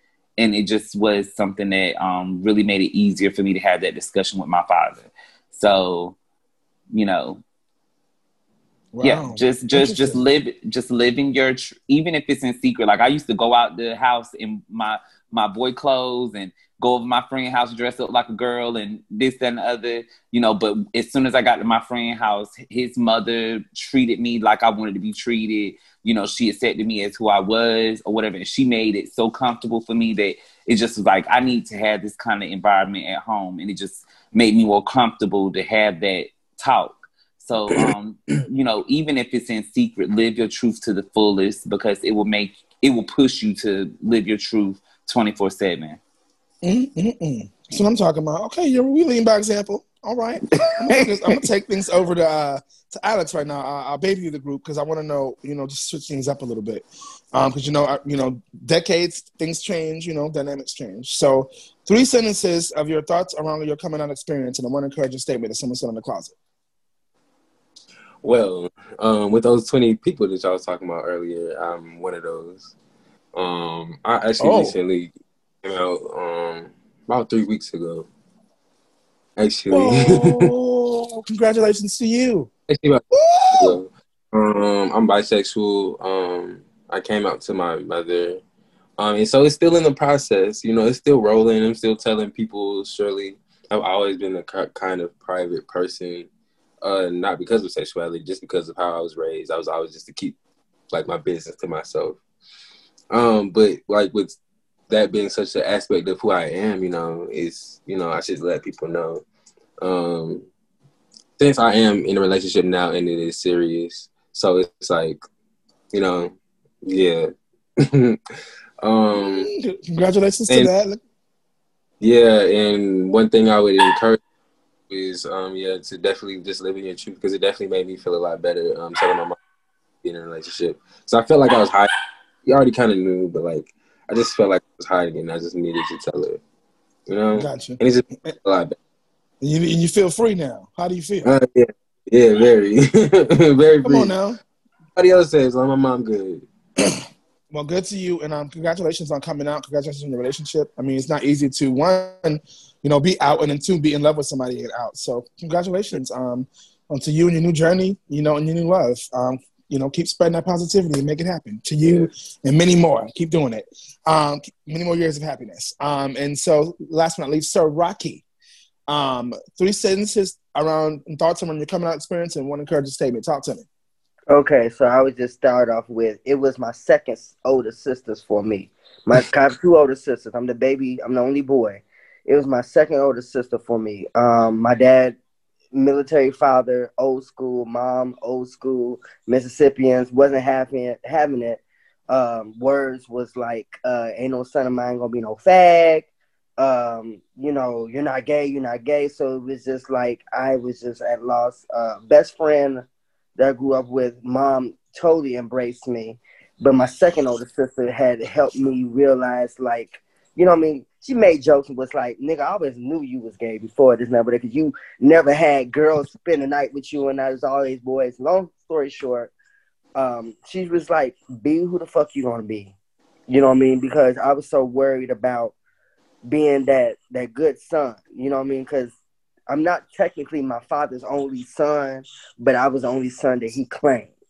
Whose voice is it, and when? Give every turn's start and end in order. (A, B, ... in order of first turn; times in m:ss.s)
0:00.4-0:06.2 A
0:06.9-0:07.4 A
0:08.9-0:10.2 B
0:09.0-0:46.0 A
0:46.6-1:06.3 B
0:50.5-0:51.4 A
1:08.2-1:12.7 C
1:13.3-1:15.1 C
1:14.4-1:14.7 B
1:15.6-1:18.1 C
1:19.4-1:20.5 C
1:19.7-1:22.5 B
1:22.7-1:28.4 C
1:23.1-1:23.8 B
1:29.0-1:36.3 C
1:36.8-1:40.4 C
1:40.9-1:42.2 C
1:43.1-1:44.4 C
1:44.9-1:49.2 C
1:49.8-1:50.4 C
1:51.4-1:55.2 C
1:55.9-1:56.3 C
1:56.8-1:58.2 C
1:58.8-1:59.5 C
1:59.2-2:01.0 B
2:02.0-2:04.2 C
2:04.9-2:09.4 C
2:10.0-2:11.9 C
2:12.4-2:16.4 C
2:17.1-2:18.8 C
2:17.4-2:18.3 B
2:19.4-2:21.3 B
2:21.2-2:24.1 C
2:23.8-2:24.4 B
2:25.0-2:26.4 C
2:27.5-2:48.2 B
2:48.9-2:53.7 B
2:54.3-3:05.2 D
3:05.7-3:22.8 D
3:23.4-3:39.3 D
3:40.0-3:42.7 D
3:43.3-3:45.5 D
3:46.2-3:48.9 D
3:49.5-3:54.1 D